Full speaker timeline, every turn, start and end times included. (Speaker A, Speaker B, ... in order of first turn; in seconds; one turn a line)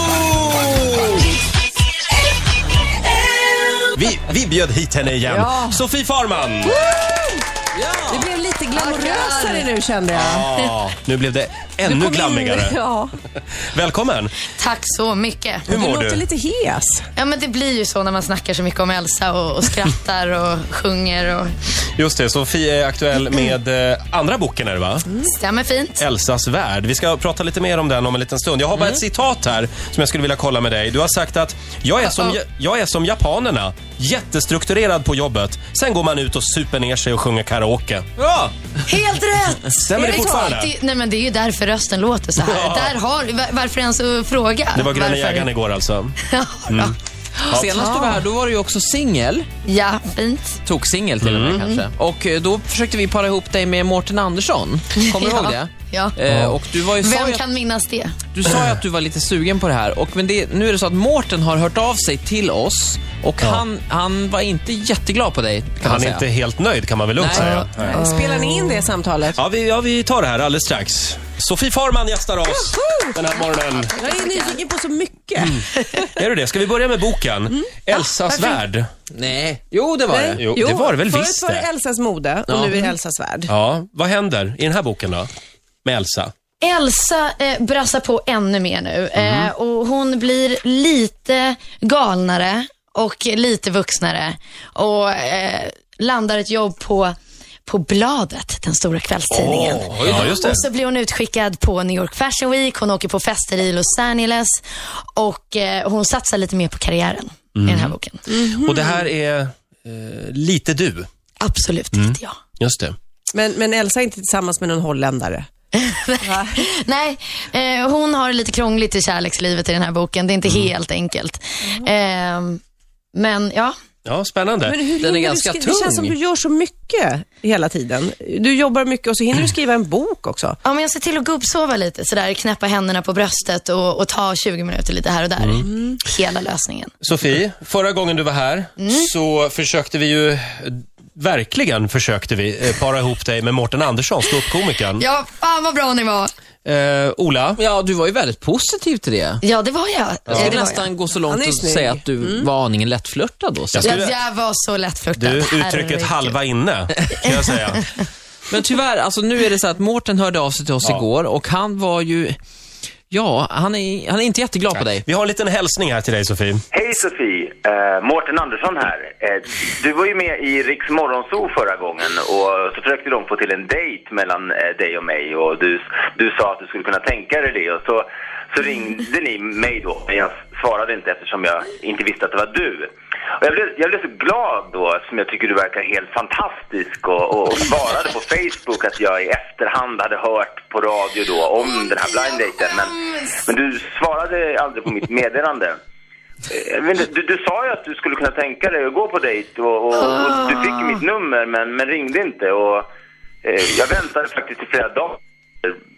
Speaker A: 0.5-1.1
Speaker B: 4.0-6.8
Speaker A: 5.2-5.8
Speaker A: 6.6-7.4
Speaker C: 7.7-8.3
Speaker A: 8.1-10.6
Speaker D: 8.7-9.7
Speaker B: 10.1-12.8
Speaker A: 11.8-13.1
Speaker B: 13.5-14.4
Speaker D: 14.6-15.8
Speaker A: 15.7-17.1
Speaker B: 15.7-16.3
Speaker D: 17.1-21.5
Speaker B: 22.0-25.1
Speaker D: 25.2-26.0
Speaker B: 26.0-38.3
Speaker C: 28.8-29.0
Speaker D: 32.1-32.4
Speaker C: 38.3-38.5
Speaker D: 38.9-45.5
Speaker B: 39.8-40.7
Speaker B: 42.4-42.9
Speaker B: 44.7-46.2
Speaker D: 46.3-46.9
Speaker B: 46.7-47.0
Speaker C: 47.4-49.5
Speaker B: 47.5-48.0
Speaker D: 47.7-48.2
Speaker D: 49.6-50.6
Speaker C: 50.6-57.4
Speaker B: 51.2-51.6
Speaker D: 55.0-56.2
Speaker B: 56.3-56.6
Speaker D: 57.0-58.1
Speaker C: 58.3-66.3
Speaker B: 65.8-68.0
Speaker C: 67.2-67.5
Speaker D: 67.4-68.9
Speaker A: 67.8-69.4
Speaker B: 69.3-73.9
Speaker A: 72.7-73.1
Speaker D: 73.9-74.6
Speaker A: 74.0-75.6
Speaker D: 75.7-76.0
Speaker B: 76.0-78.9
Speaker D: 78.3-78.6
Speaker C: 79.1-80.5
Speaker A: 80.1-83.5
Speaker B: 80.4-81.7
Speaker C: 82.5-82.9
Speaker B: 83.5-85.3
Speaker B: 85.8-86.3
Speaker D: 86.6-97.2
Speaker B: 89.2-89.5
Speaker D: 97.7-108.3
Speaker B: 99.3-100.7
Speaker C: 100.0-100.3
Speaker B: 107.6-111.1
Speaker A: 108.3-109.0
Speaker D: 111.4-112.4
Speaker B: 111.9-113.0
Speaker A: 113.3-115.5
Speaker D: 115.8-122.6
Speaker A: 116.2-116.6
Speaker D: 123.1-123.7
Speaker B: 124.0-124.9
Speaker A: 124.7-130.6
Speaker C: 125.0-126.2
Speaker D: 130.6-136.9
Speaker B: 137.0-145.1
Speaker D: 138.8-139.1
Speaker D: 145.0-146.3
Speaker B: 146.7-147.6
Speaker C: 147.6-149.4
Speaker D: 149.4-150.9
Speaker B: 150.3-150.5
Speaker C: 150.3-154.0
Speaker A: 151.3-152.5
Speaker B: 153.7-154.2
Speaker D: 153.8-156.4
Speaker B: 155.2-157.9
Speaker C: 158.5-162.4
Speaker C: 163.1-165.1
Speaker B: 164.8-166.6
Speaker E: 166.7-195.8
Speaker D: 191.6-193.4
Speaker E: 196.5-202.8
Speaker D: 199.9-201.0
Speaker E: 203.4-205.8